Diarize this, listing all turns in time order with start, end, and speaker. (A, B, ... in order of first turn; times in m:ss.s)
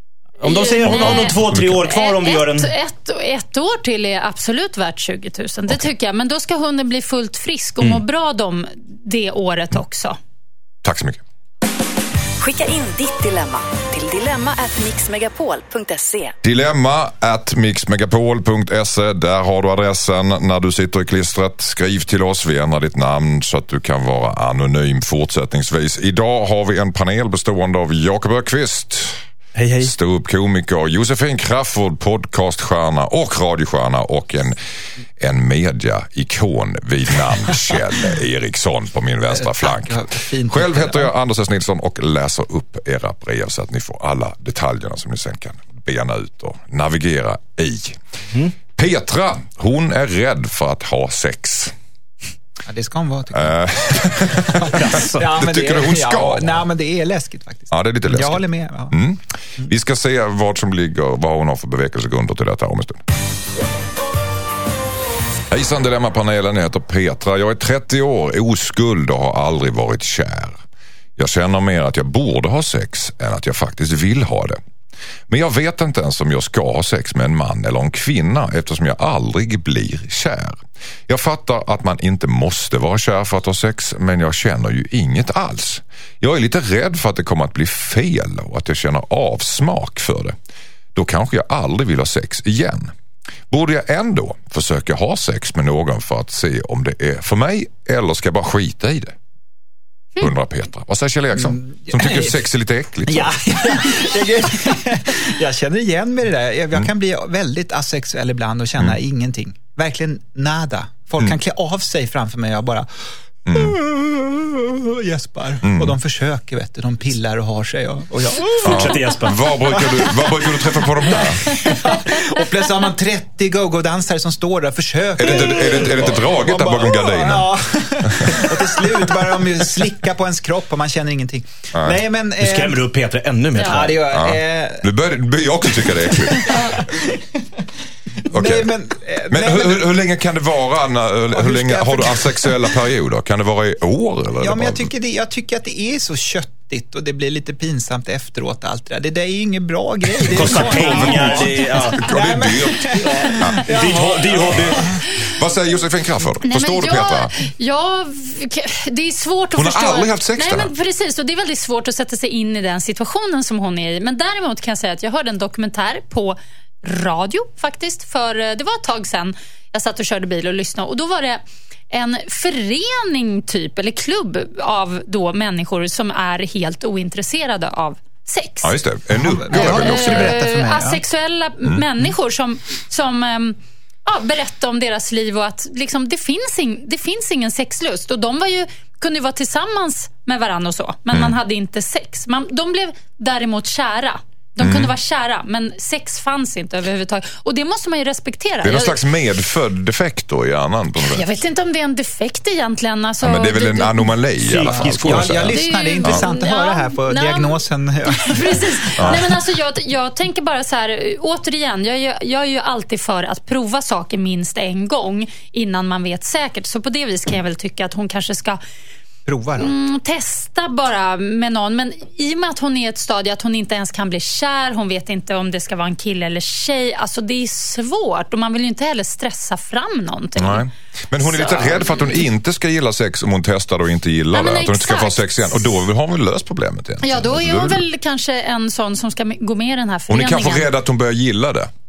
0:00.4-0:02.7 A
0:00.4-0:10.2 B
0:01.2-0:01.8 C
0:10.8-0:11.2 C
0:12.4-0:16.4 D
0:16.4-0:29.2 C
0:29.6-0:29.9 A
0:29.8-0:34.6 C
0:35.2-0:48.0 C
0:39.3-0:41.1 E
0:48.8-0:51.7 C
0:52.7-0:53.6 E
0:53.3-0:56.6 C
0:54.5-0:59.0 E
0:54.7-0:55.3 A
0:57.7-1:03.0 C
1:05.5-1:10.6 C
1:11.2-1:14.6 C
1:15.3-1:30.4 C
1:31.0-1:32.9 C
1:33.5-1:39.2 C
1:40.2-1:43.4 C
1:41.3-1:42.4 E
1:43.1-1:52.9 E
1:53.5-1:53.8 C
1:53.5-2:12.8 E
1:55.6-1:56.0 C
1:58.5-1:59.5 A
1:58.6-2:01.9 C
2:05.2-2:08.6 C
2:11.7-2:12.0 C
2:12.4-2:14.1 A
2:13.6-2:14.9 E
2:14.1-2:16.8 C
2:15.8-2:17.2 E
2:18.3-2:19.8 E
2:18.3-2:18.7 C
2:19.3-2:24.9 C
2:21.3-2:22.8 E
2:24.4-2:35.0 E
2:30.2-2:32.2 A
2:30.2-2:37.3 C
2:33.0-2:34.9 A
2:36.4-2:58.7 B
2:39.6-2:40.7 C
2:58.6-3:00.4 C
2:59.1-3:01.0 E
2:59.5-3:19.0 B
3:14.6-3:14.9 C
3:18.6-3:21.3 C
3:21.0-3:24.2 B
3:23.2-3:26.2 C
3:24.4-3:25.5 A
3:24.7-3:29.4 E
3:25.5-3:38.6 B
3:29.0-3:29.2 C
3:39.3-3:39.7 E
3:39.6-3:50.7 B
3:50.4-3:57.8 C
3:51.2-3:52.3 B
3:54.3-3:55.7 B
3:57.0-4:00.7 B
4:00.1-4:01.7 C